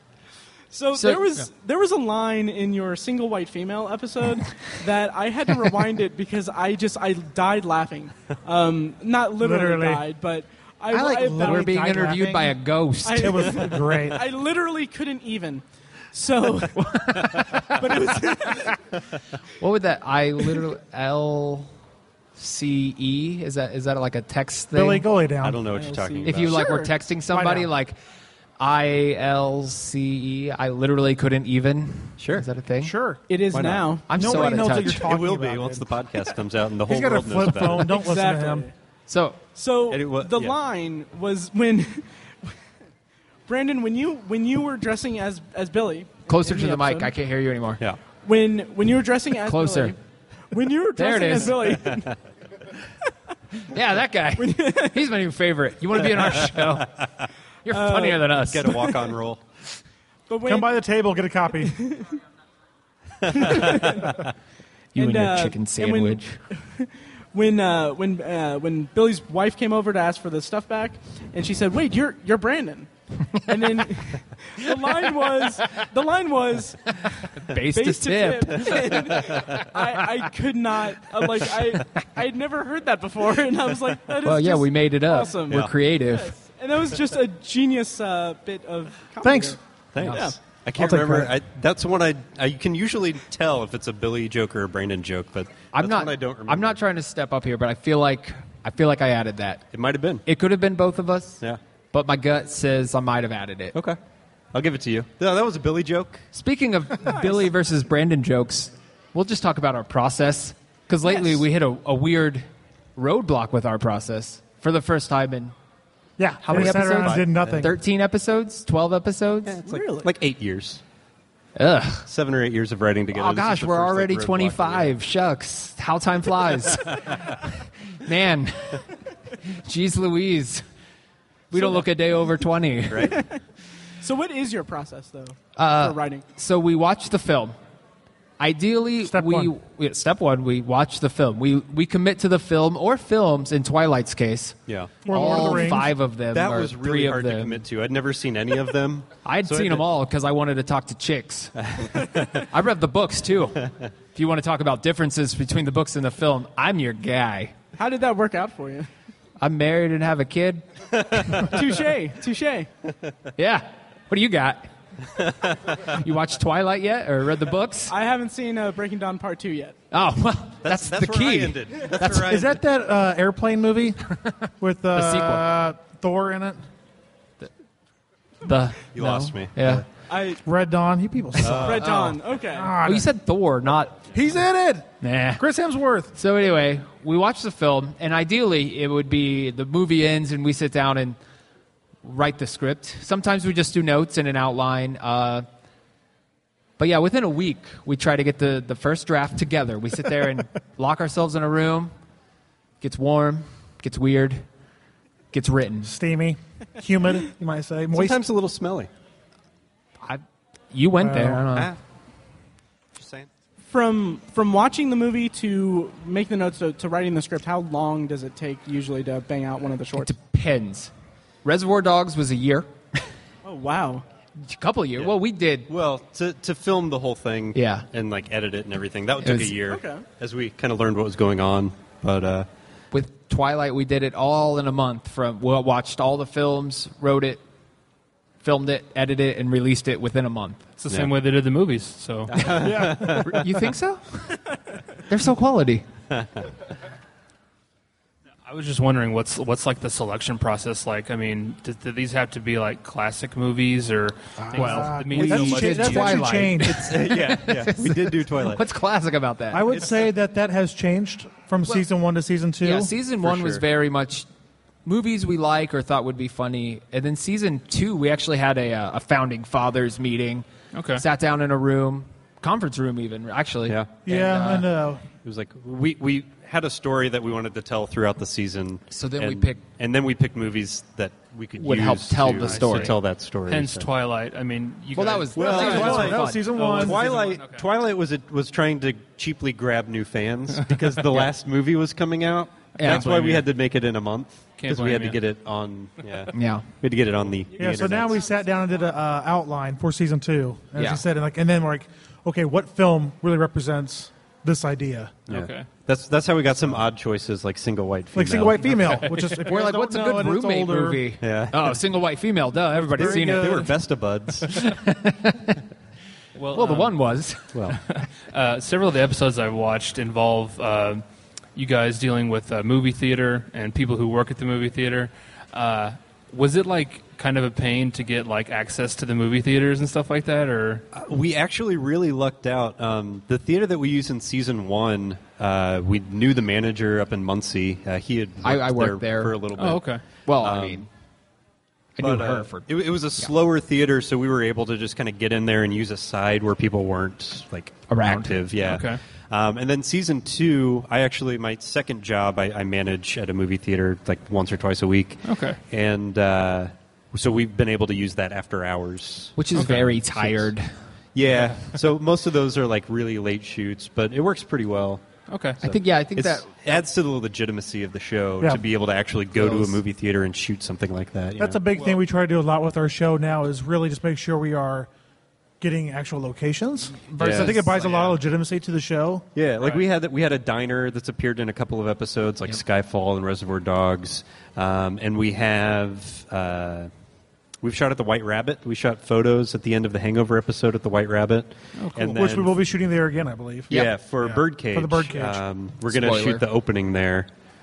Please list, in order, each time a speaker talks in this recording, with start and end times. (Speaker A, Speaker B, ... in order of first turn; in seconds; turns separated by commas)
Speaker A: 0.7-11.9, Speaker B: 0.9-1.4, Speaker C: 9.4-10.0, Speaker C: 10.9-14.3, Speaker B: 11.4-13.6, Speaker A: 13.0-18.8, Speaker B: 16.8-17.8, Speaker B: 19.6-21.7, Speaker B: 22.4-25.1, Speaker C: 24.7-25.6, Speaker D: 25.4-26.6, Speaker A: 25.7-26.9, Speaker B: 26.2-28.0, Speaker C: 27.3-27.7, Speaker B: 28.6-32.9, Speaker D: 32.2-32.5, Speaker C: 32.8-33.2, Speaker A: 33.3-34.8, Speaker D: 33.5-37.9, Speaker B: 34.1-35.0, Speaker C: 34.1-36.0, Speaker C: 36.9-38.7, Speaker A: 37.8-38.7, Speaker B: 39.1-39.4, Speaker A: 39.5-42.5, Speaker D: 39.9-40.5, Speaker A: 43.5-47.1, Speaker B: 46.3-47.8, Speaker A: 48.2-50.0, Speaker B: 49.5-50.0, Speaker A: 50.5-52.2, Speaker B: 51.0-51.9, Speaker B: 53.7-57.1, Speaker A: 54.4-55.0, Speaker B: 57.6-58.9, Speaker A: 57.7-58.9, Speaker D: 58.4-59.4, Speaker A: 60.3-60.7, Speaker C: 60.5-61.7, Speaker A: 61.6-62.1, Speaker A: 63.3-64.2, Speaker D: 63.5-63.7, Speaker B: 65.0-66.4, Speaker A: 65.0-89.6, Speaker B: 77.1-79.9, Speaker B: 84.2-86.3, Speaker D: 85.5-85.7, Speaker C: 89.2-89.6, Speaker D: 89.9-96.8, Speaker B: 90.0-90.3, Speaker A: 90.1-90.4, Speaker C: 90.8-91.3, Speaker B: 95.7-99.6, Speaker D: 99.7-100.2, Speaker B: 100.3-101.4, Speaker B: 101.9-103.8, Speaker D: 104.5-106.3, Speaker B: 106.3-115.5, Speaker A: 107.0-107.4, Speaker A: 111.0-111.4, Speaker C: 116.2-117.8, Speaker B: 116.4-119.6, Speaker D: 116.5-117.7, Speaker D: 119.5-120.8, Speaker A: 119.7-120.1, Speaker B: 121.6-122.1, Speaker D: 122.1-124.9, Speaker B: 123.1-128.9, Speaker B: 129.6-130.6, Speaker B: 131.5-133.2, Speaker A: 131.5-131.8, Speaker D: 132.9-133.2, Speaker A: 133.0-133.4, Speaker A: 134.0-136.2, Speaker B: 135.6-137.6, Speaker B: 138.4-147.6, Speaker C: 139.0-139.5, Speaker D: 144.7-145.7, Speaker C: 145.1-145.9, Speaker D: 146.3-149.9, Speaker B: 149.3-157.5, Speaker D: 151.6-152.5, Speaker A: 157.8-158.9, Speaker B: 159.4-160.7, Speaker D: 161.0-161.3, Speaker B: 161.2-161.5, Speaker A: 161.3-162.7, Speaker B: 163.4-164.7, Speaker B: 165.8-167.9, Speaker A: 167.9-169.8, Speaker B: 169.9-172.4, Speaker D: 170.6-172.6, Speaker C: 172.1-176.6, Speaker B: 174.9-175.5, Speaker B: 178.4-179.8, Speaker D: 178.9-179.9, Speaker A: 180.1-180.4, Speaker C: 180.4-183.1, Speaker D: 181.4-182.1, Speaker A: 181.5-182.8, Speaker B: 181.8-182.2, Speaker B: 182.8-184.1, Speaker C: 184.1-186.1, Speaker B: 185.0-185.4, Speaker B: 186.2-191.2, Speaker B: 192.0-195.5, Speaker B: 196.8-201.9, Speaker B: 202.8-204.4, Speaker B: 205.3-205.9, Speaker C: 205.8-208.2, Speaker D: 207.9-208.9, Speaker B: 210.0-211.7, Speaker C: 211.0-211.5, Speaker D: 211.5-211.8, Speaker D: 213.0-213.3, Speaker A: 213.7-220.1, Speaker B: 220.0-220.9, Speaker B: 221.4-223.1, Speaker A: 223.4-224.1, Speaker B: 224.4-225.7, Speaker D: 225.7-232.5, Speaker B: 227.5-227.9, Speaker B: 229.2-229.6, Speaker A: 229.7-230.1, Speaker B: 232.9-237.4, Speaker B: 238.4-240.7, Speaker E: 240.8-242.5, Speaker D: 242.3-243.5, Speaker B: 242.6-245.8, Speaker C: 242.7-243.3, Speaker D: 246.1-246.4, Speaker E: 248.5-256.3, Speaker C: 254.4-256.9, Speaker B: 254.6-259.8, Speaker D: 256.6-258.6, Speaker C: 259.5-262.9, Speaker D: 259.7-260.0, Speaker B: 262.6-264.3, Speaker D: 263.2-263.6, Speaker B: 264.9-270.5, Speaker E: 270.7-271.0, Speaker B: 271.0-274.7, Speaker C: 274.1-275.0, Speaker D: 275.2-283.9, Speaker B: 278.9-279.6, Speaker B: 281.6-282.9, Speaker E: 282.4-287.7, Speaker B: 284.9-286.5, Speaker D: 285.4-298.2, Speaker C: 285.4-287.0, Speaker B: 292.8-293.4, Speaker E: 292.8-293.4, Speaker E: 294.6-295.2, Speaker B: 296.3-296.6, Speaker A: 297.6-298.5, Speaker C: 297.6-305.2, Speaker B: 300.8-301.0, Speaker D: 305.3-309.2, Speaker E: 305.3-305.7, Speaker C: 308.1-311.1, Speaker B: 309.4-313.7, Speaker D: 311.2-311.8, Speaker C: 312.7-313.8, Speaker D: 312.9-314.6, Speaker B: 314.5-315.6, Speaker E: 316.4-317.0, Speaker B: 316.5-317.8, Speaker D: 317.5-317.8, Speaker E: 317.9-321.0, Speaker E: 321.6-330.8, Speaker D: 330.9-339.9, Speaker B: 338.4-339.4, Speaker E: 339.6-340.1, Speaker B: 340.3-340.9, Speaker D: 340.4-340.8, Speaker B: 342.0-343.3, Speaker D: 342.0-360.5, Speaker B: 347.9-348.4, Speaker E: 348.6-349.0, Speaker E: 355.2-355.6, Speaker B: 359.4-360.7, Speaker E: 359.6-359.9, Speaker D: 361.1-365.0, Speaker E: 361.3-361.6, Speaker E: 365.3-365.6, Speaker D: 365.6-371.6, Speaker B: 365.6-366.5, Speaker B: 369.4-369.8, Speaker C: 371.4-374.9, Speaker C: 375.6-379.2, Speaker B: 377.0-378.1, Speaker D: 377.2-377.6, Speaker D: 379.4-386.9, Speaker D: 387.6-392.5, Speaker E: 391.8-392.2, Speaker C: 392.0-395.4, Speaker D: 393.7-397.3, Speaker B: 395.9-396.4